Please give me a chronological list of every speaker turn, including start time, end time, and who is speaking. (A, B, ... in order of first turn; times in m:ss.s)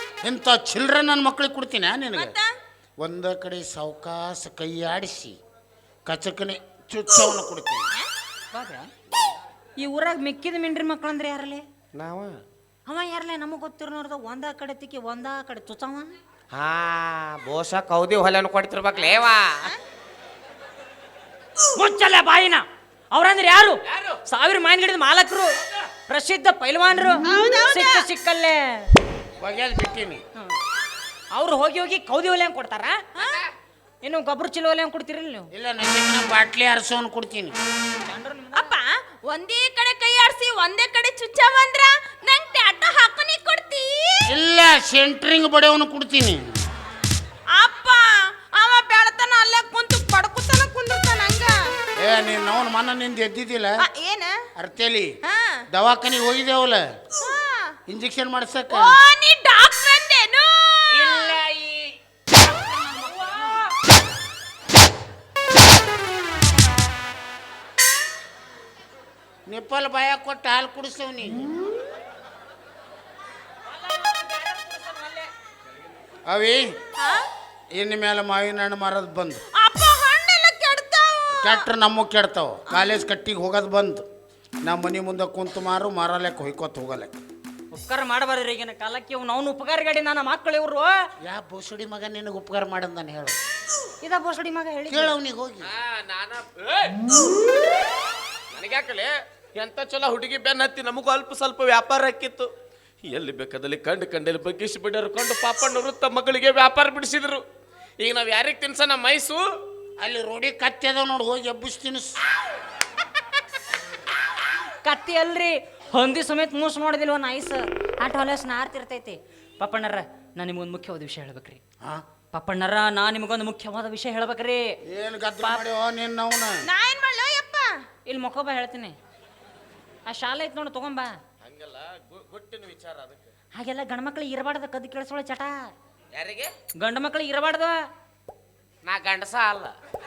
0:00.2-0:02.3 A
0:02.1-0:02.5 B
0:03.0-0:05.4 A
0:06.0-0:07.8 A
0:08.5-0:08.9 C
0:09.8-0:11.6 C
0:11.9-0:12.4 D
0:12.8-0:16.1 C
0:16.5-0:19.7 D
0:21.7-0:25.5 C
0:23.9-0:24.2 D
0:26.1-0:28.9 C
0:27.2-0:28.1 B
0:29.4-0:30.2 A
0:31.3-0:33.0 C
0:33.1-0:33.4 B
0:34.0-0:35.5 C
0:35.5-0:37.6 A
0:38.0-0:38.7 C
0:38.5-0:44.2 B
0:44.3-0:46.5 A
0:47.5-0:51.6 B
0:52.0-0:53.8 A
0:53.8-0:54.3 B
0:54.6-0:55.2 A
0:55.3-0:55.6 B
0:55.7-0:56.8 A
0:57.2-0:57.8 B
0:57.9-0:59.0 A
0:58.7-1:01.4 B
1:00.9-1:01.9 D
1:02.7-1:03.6 C
1:09.5-1:11.5 A
1:13.7-1:15.3 C
1:16.2-1:16.7 A
1:17.0-1:17.2 B
1:17.7-1:19.4 A
1:19.6-1:21.7 B
1:21.4-1:24.0 A
1:22.7-1:23.0 B
1:24.6-1:27.1 A
1:27.7-1:30.9 C
1:31.2-1:33.4 A
1:34.0-1:35.1 C
1:34.9-1:35.7 A
1:35.6-1:37.0 D
1:38.5-1:42.5 D
1:43.0-1:47.4 D
1:48.0-1:49.4 D
1:50.0-1:52.2 A
1:54.8-2:01.6 C
2:02.3-2:04.7 C
2:04.9-2:06.6 A
2:06.6-2:07.7 B
2:08.1-2:09.0 C
2:10.0-2:11.1 C
2:11.4-2:13.3 D
2:13.6-2:15.6 C
2:16.1-2:16.5 D
2:16.8-2:17.8 C
2:18.8-2:19.7 D